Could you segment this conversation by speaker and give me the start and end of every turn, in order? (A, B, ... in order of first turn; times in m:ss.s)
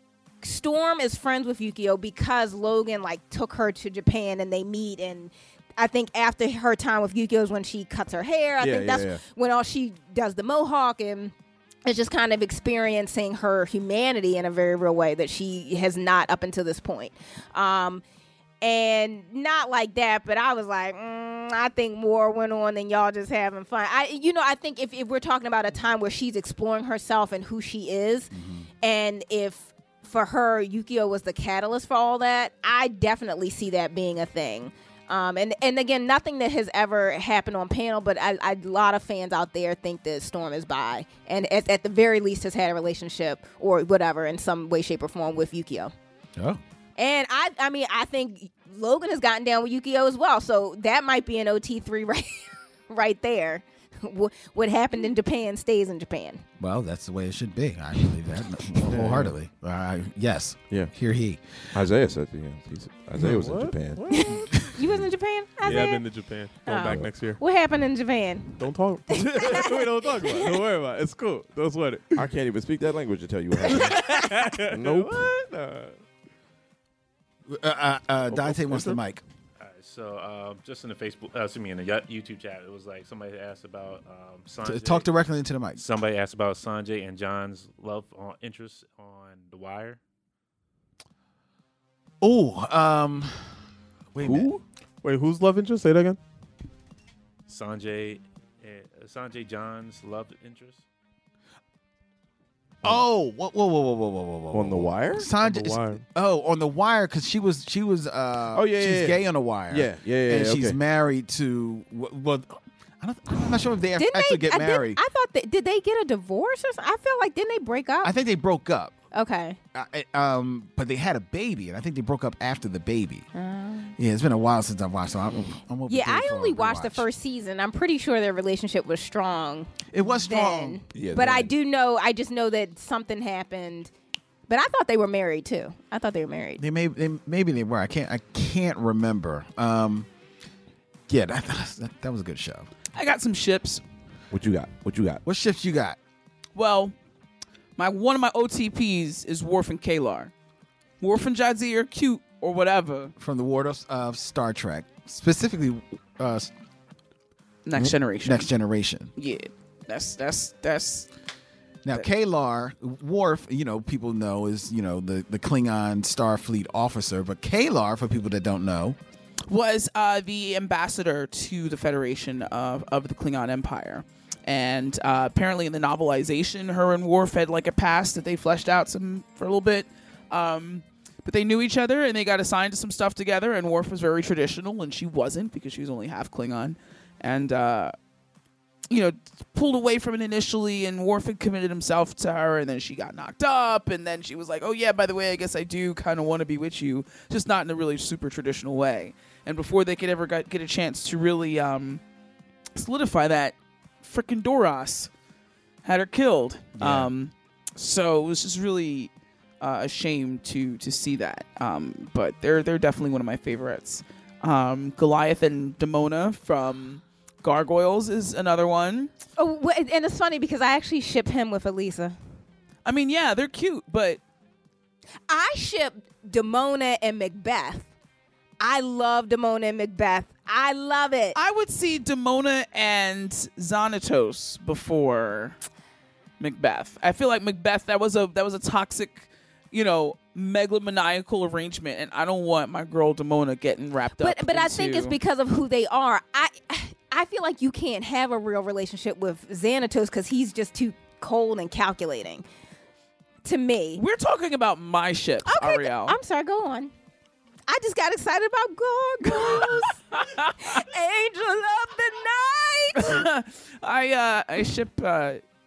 0:00.4-0:11.3 A
0:08.6-0:09.2 B
0:11.9-0:18.0 A
0:18.6-0:45.9 A
0:28.3-0:28.7 C
0:47.0-0:56.4 A
0:56.6-1:01.4 C
0:58.9-0:59.3 D
1:01.7-1:04.1 B
1:03.2-1:04.7 D
1:04.1-1:06.0 A
1:05.6-1:07.4 D
1:06.6-1:08.6 A
1:08.6-1:12.2 D
1:09.1-1:10.5 A
1:12.2-1:14.1 B
1:13.7-1:16.0 D
1:14.7-1:15.3 B
1:17.5-1:19.2 C
1:18.4-1:19.0 D
1:19.6-1:25.1 E
1:24.6-1:25.8 C
1:25.8-1:30.0 E
1:32.2-1:33.4 C
1:34.1-1:34.5 C
1:34.2-1:34.6 B
1:35.0-1:36.2 D
1:37.5-1:40.8 E
1:42.8-1:55.0 C
1:44.5-1:46.0 B
1:45.4-1:45.8 D
1:48.5-1:50.8 B
1:54.0-1:58.1 A
1:58.0-1:59.0 C
1:59.1-1:59.6 A
1:59.7-2:03.3 C
2:03.3-2:03.9 A
2:04.0-2:07.1 C
2:05.9-2:13.9 A
2:09.9-2:10.8 C
2:10.9-2:11.5 B
2:14.5-2:16.6 A
2:16.6-2:20.1 C
2:21.1-2:22.7 C
2:23.0-2:23.8 F
2:24.3-2:25.2 B
2:25.2-2:26.0 C
2:26.6-2:27.0 F
2:27.8-2:30.3 F
2:31.0-2:33.1 F
2:33.2-2:36.5 C
2:37.6-2:38.5 F
2:37.8-2:39.1 C
2:39.2-2:41.1 F
2:41.8-2:49.0 C
2:49.5-3:08.0 F
3:08.9-3:22.0 F
3:22.8-3:25.1 F
3:25.8-3:39.1 F
3:26.8-3:27.1 C
3:39.4-3:42.2 A
3:42.8-3:44.2 F
3:45.3-3:47.9 A
3:48.6-3:51.4 A
3:51.3-3:55.6 F
3:56.4-4:05.2 F
4:04.2-4:12.4 A
4:13.4-4:14.0 A
4:14.0-4:16.2 F
4:15.4-4:16.9 A
4:17.7-4:20.0 A
4:19.3-4:20.6 F
4:20.6-4:23.2 A
4:23.0-4:25.4 F